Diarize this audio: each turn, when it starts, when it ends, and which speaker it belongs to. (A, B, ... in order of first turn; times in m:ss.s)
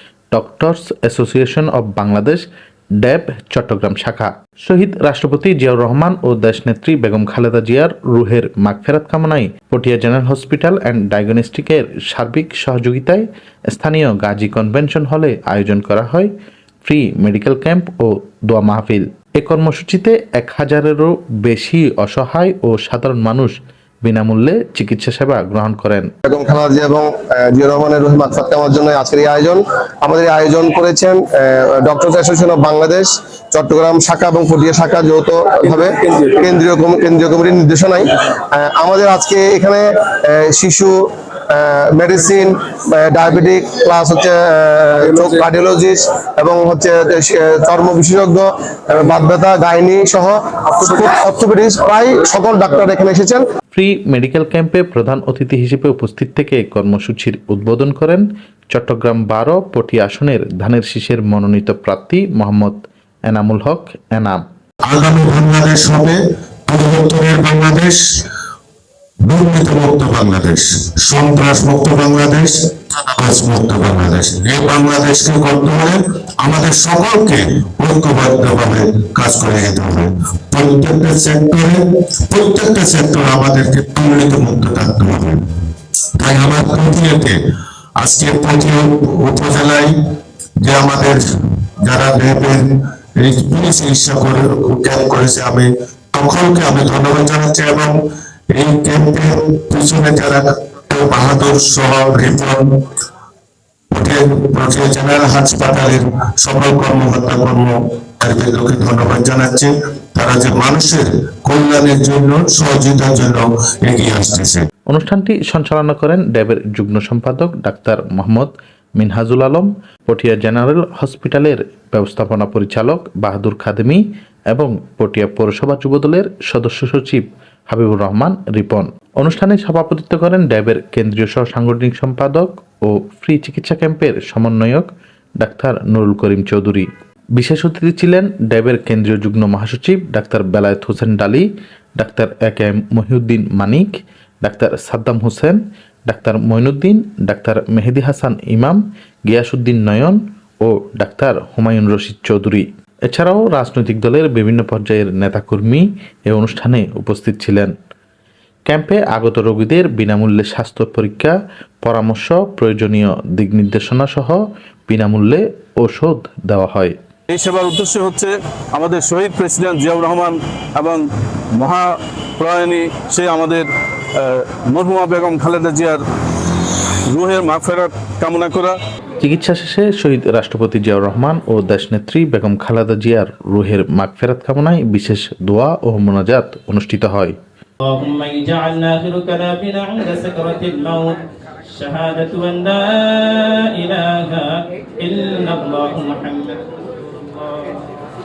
0:00.3-0:02.4 A
0:03.0-0:16.3 A
0:16.8-0:26.1 A
0:26.3-0:41.0 B
0:35.7-0:36.5 C
0:41.5-0:53.4 B
0:45.0-0:45.4 C
0:53.7-1:04.4 A
1:04.9-1:08.0 D
1:09.2-1:25.4 D
1:26.2-1:27.4 D
1:28.0-1:29.9 D
1:30.6-1:31.2 D
1:31.8-1:38.0 D
1:38.5-1:42.7 D
1:43.9-1:54.6 D
1:54.9-2:14.9 A
2:15.4-2:21.5 A
2:22.0-2:23.9 A
2:24.4-2:37.7 A
2:38.7-2:47.0 A
2:47.3-2:51.0 C
2:51.6-2:56.0 C
2:57.1-2:58.8 C
2:59.2-3:07.4 A
3:07.9-3:11.2 E
3:11.7-3:16.8 E
3:17.4-3:17.7 E